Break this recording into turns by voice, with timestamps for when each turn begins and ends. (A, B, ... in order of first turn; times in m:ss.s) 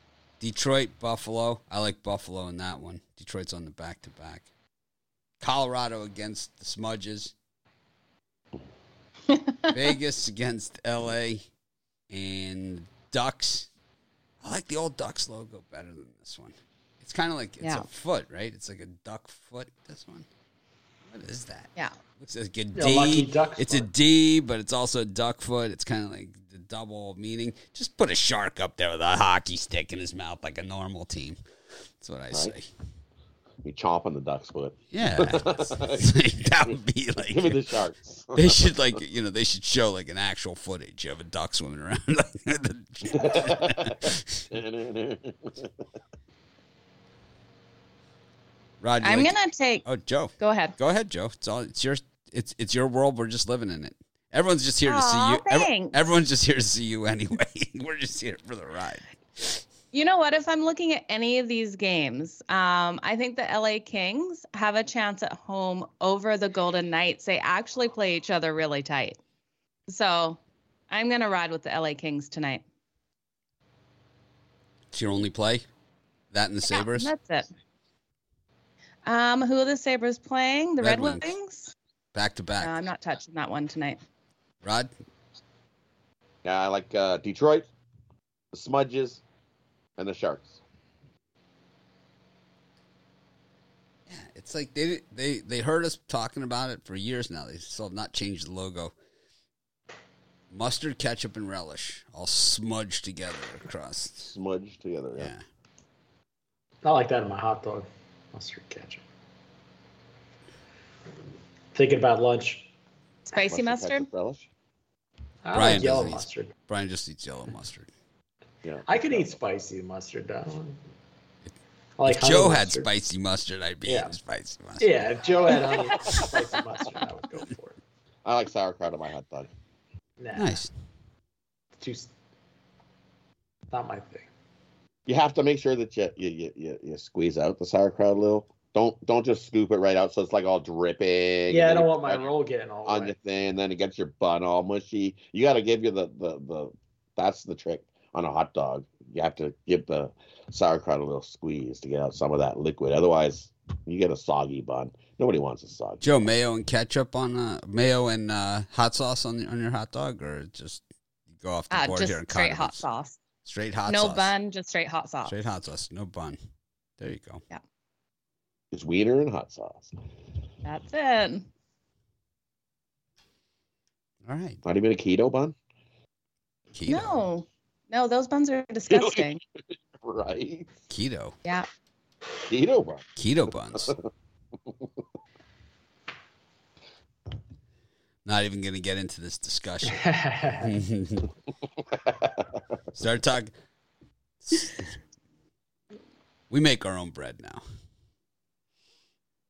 0:00.4-0:04.5 A
0:05.4-0:07.3 A
0:09.3-0:09.6 B
0:09.7-0:11.5 A
0:12.1-0:13.7 A
0:14.4-0:20.3 A
0:21.1-0:31.4 A
0:22.8-0:23.9 C
0:32.0-0:32.7 A
0:33.6-0:36.1 D
0:34.9-0:37.6 A
0:37.3-0:38.7 D
0:38.3-0:44.5 A
0:43.1-0:45.8 D
0:48.8-0:49.3 A
0:49.0-0:49.8 B
0:49.8-0:59.6 A
0:50.4-0:50.8 B
0:54.9-0:56.0 B
0:59.9-1:09.2 B
1:09.9-1:12.6 B
1:14.9-1:15.7 A
1:16.3-1:17.1 A
1:16.7-1:17.5 B
1:19.1-1:21.7 B
1:20.8-1:21.3 A
1:22.1-1:22.9 A
1:22.6-1:24.0 B
1:24.6-1:24.9 A
1:26.4-1:27.7 D
1:28.5-1:29.2 D
1:30.0-1:30.6 D
1:34.1-1:38.9 A
1:40.5-1:44.4 A
1:44.3-1:45.3 D
1:45.2-1:45.4 A
1:46.8-1:49.0 C
1:51.7-1:52.7 C
1:53.3-1:54.1 B
1:53.5-1:54.5 D
1:55.4-1:56.5 C
1:55.5-1:57.9 A
1:58.6-1:59.3 D
1:58.9-2:00.8 C
2:02.0-2:02.9 C
2:02.0-2:06.2 A
2:03.9-2:04.1 C
2:04.8-2:07.8 C
2:08.2-2:09.5 D
2:10.2-2:10.6 C
2:10.3-2:10.7 A
2:11.8-2:12.1 C
2:13.7-2:14.3 C
2:15.1-2:22.3 D
2:21.5-2:23.1 C
2:22.8-2:36.1 D
2:36.0-2:40.8 A
2:41.4-2:42.8 A
2:41.7-2:43.2 B
2:43.4-2:44.3 A
2:43.9-2:45.3 B
2:45.2-2:46.4 A
2:47.0-2:47.4 A
2:48.7-2:50.0 D
2:50.6-2:51.5 B
2:54.2-2:54.6 A
2:54.6-2:55.6 D
2:56.7-2:57.2 A
2:56.9-2:59.4 B
2:58.9-2:59.4 D
2:59.9-3:00.7 D
3:00.9-3:01.4 A
3:02.5-3:03.1 D
3:03.2-3:04.0 A
3:08.2-3:10.0 A
3:09.9-3:10.7 C
3:10.6-3:11.3 A
3:11.8-3:12.6 D
3:13.0-3:13.5 A
3:14.5-3:14.9 A
3:16.5-3:17.6 A